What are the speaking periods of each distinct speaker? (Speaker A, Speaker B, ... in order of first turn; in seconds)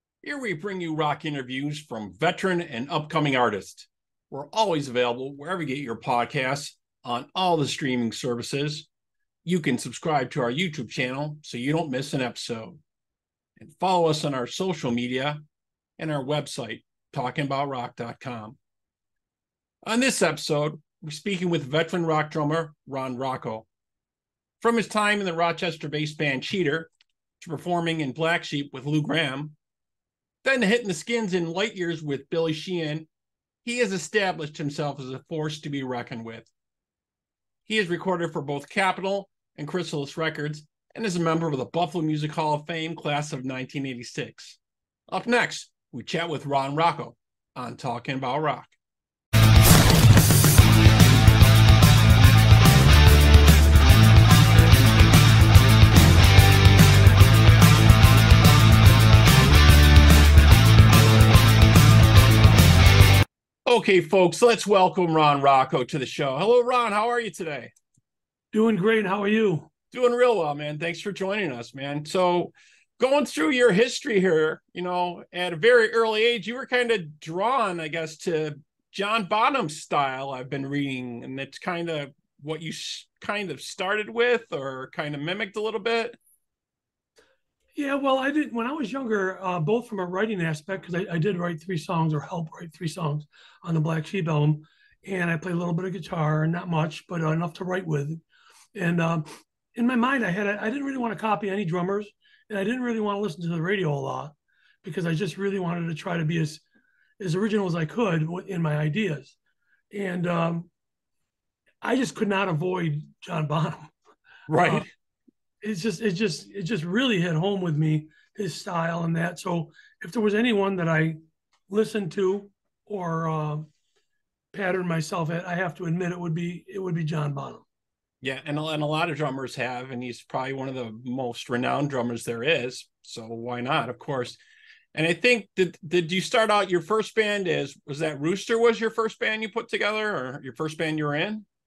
Speaker A: 0.2-8.9, 9.4-12.8, 13.6-15.4, 16.0-18.6, 19.8-23.7, 24.6-29.6, 30.4-33.1, 33.6-36.5, 37.7-48.7, 63.6-67.7, 69.9-86.2, 114.5-114.9, 128.2-134.4, 134.9-141.4
Speaker B: 68.5-69.7, 87.8-98.2, 98.8-106.6, 107.2-109.4, 109.9-110.7, 111.8-114.0, 115.6-123.7, 124.5-127.7